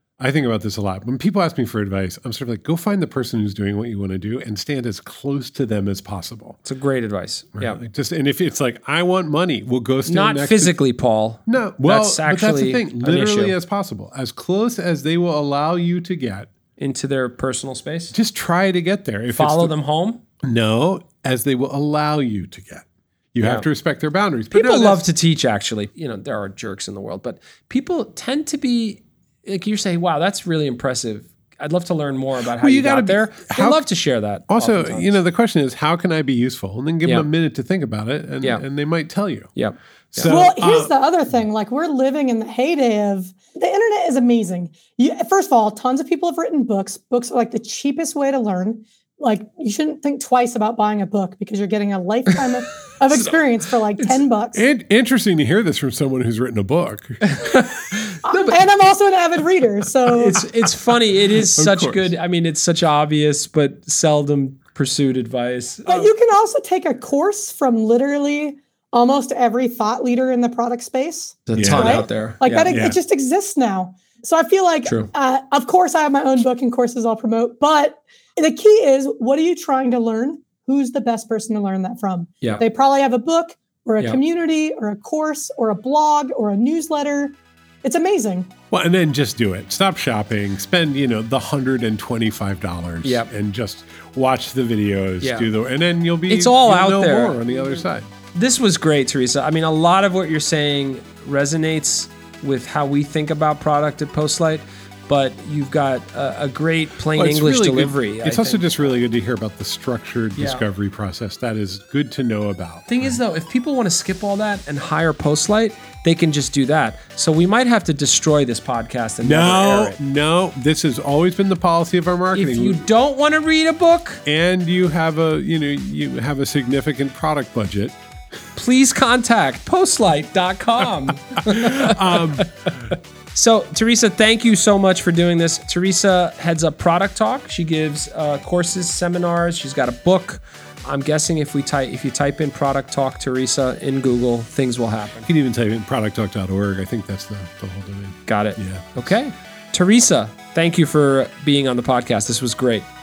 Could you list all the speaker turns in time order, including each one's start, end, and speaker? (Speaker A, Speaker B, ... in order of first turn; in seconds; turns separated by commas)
Speaker A: 0.2-6.6, Speaker B: 6.6-7.8, Speaker A: 7.5-10.8, Speaker B: 10.1-13.5, Speaker A: 11.5-16.5, Speaker B: 16.8-18.1, Speaker A: 18.1-19.7, Speaker B: 19.3-20.2, Speaker A: 20.4-25.0, Speaker B: 23.4-23.7, Speaker B: 24.5-35.2, Speaker A: 32.6-33.8, Speaker A: 34.5-39.5, Speaker B: 39.5-40.4, Speaker A: 40.1-40.9, Speaker C: 40.3-54.6, Speaker A: 54.5-57.4, Speaker B: 57.2-58.6, Speaker C: 58.3-60.4, Speaker B: 60.1-66.1, Speaker A: 61.5-62.1, Speaker C: 65.9-88.5, Speaker B: 71.5-72.7, Speaker A: 71.6-72.1, Speaker A: 72.7-73.0, Speaker B: 74.8-75.1, Speaker A: 88.7-98.1, Speaker B: 93.0-93.3, Speaker B: 95.2-95.5, Speaker B: 96.3-97.5, Speaker B: 98.3-108.7, Speaker A: 107.2-113.2, Speaker B: 110.4-110.6, Speaker B: 112.9-120.0, Speaker A: 119.2-122.8, Speaker B: 122.3-124.2, Speaker A: 124.3-128.0, Speaker B: 128.6-145.3, Speaker A: 131.5-132.5, Speaker A: 145.2-149.2, Speaker B: 148.3-152.9